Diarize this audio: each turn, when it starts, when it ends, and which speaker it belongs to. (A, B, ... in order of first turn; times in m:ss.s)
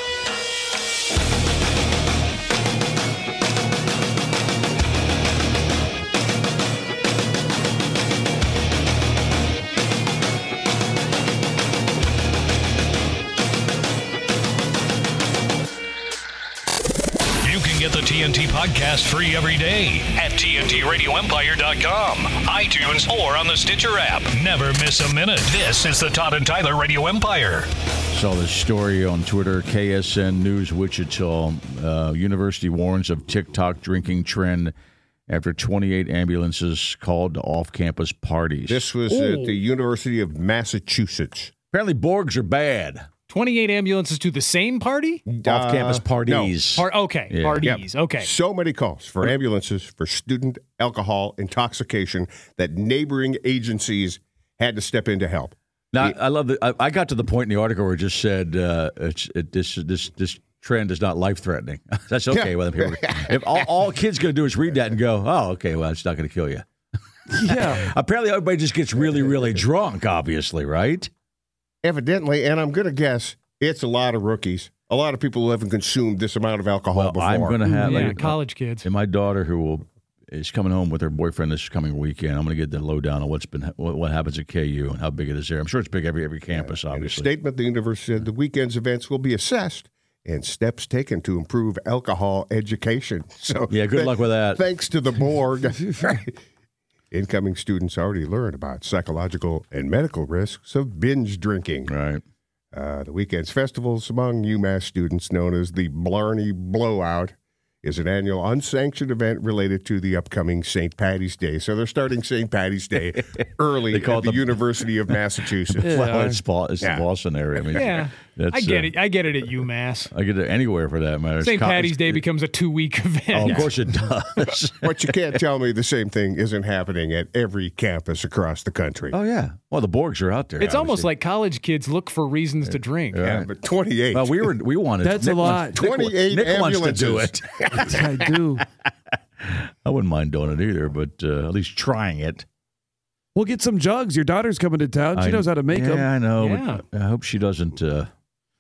0:17.4-0:27.7 A
0:28.1-0:34.7 B
0:35.3-0:38.9 B
0:38.7-0:41.5 C
0:39.1-0:39.6 D
0:41.7-0:43.1 B
0:43.3-0:45.2 D
0:45.3-0:46.6 C
0:45.4-0:47.7 B
0:46.8-0:48.3 D
0:47.6-0:56.1 C
0:55.9-1:06.6 B
1:02.3-1:03.7 C
1:07.3-1:07.9 E
1:07.4-1:11.1 B
1:09.0-1:09.6 C
1:11.8-1:17.6 C
1:16.9-1:27.3 B
1:17.6-1:18.1 E
1:17.8-1:18.8 D
1:26.5-1:36.4 C
1:33.7-1:34.6 B
1:37.1-1:41.9 C
1:41.9-1:42.2 B
1:42.7-1:56.1 C
1:53.9-1:54.6 B
1:55.8-1:58.9 B
1:55.8-1:56.4 E
1:57.6-1:57.8 C
1:57.8-2:00.1 D
2:00.1-2:02.2 B
2:01.4-2:03.7 D
2:03.3-2:05.0 B
2:04.8-2:09.2 C
2:09.1-2:11.1 B
2:10.6-2:13.2 D
2:13.1-2:13.5 B
2:13.2-2:14.5 C
2:14.1-2:17.9 B
2:15.0-2:15.8 E
2:15.7-2:18.3 C
2:17.7-2:18.6 E
2:19.4-2:22.4 B
2:23.4-2:26.1 E
2:25.2-2:28.1 B
2:26.4-2:26.8 D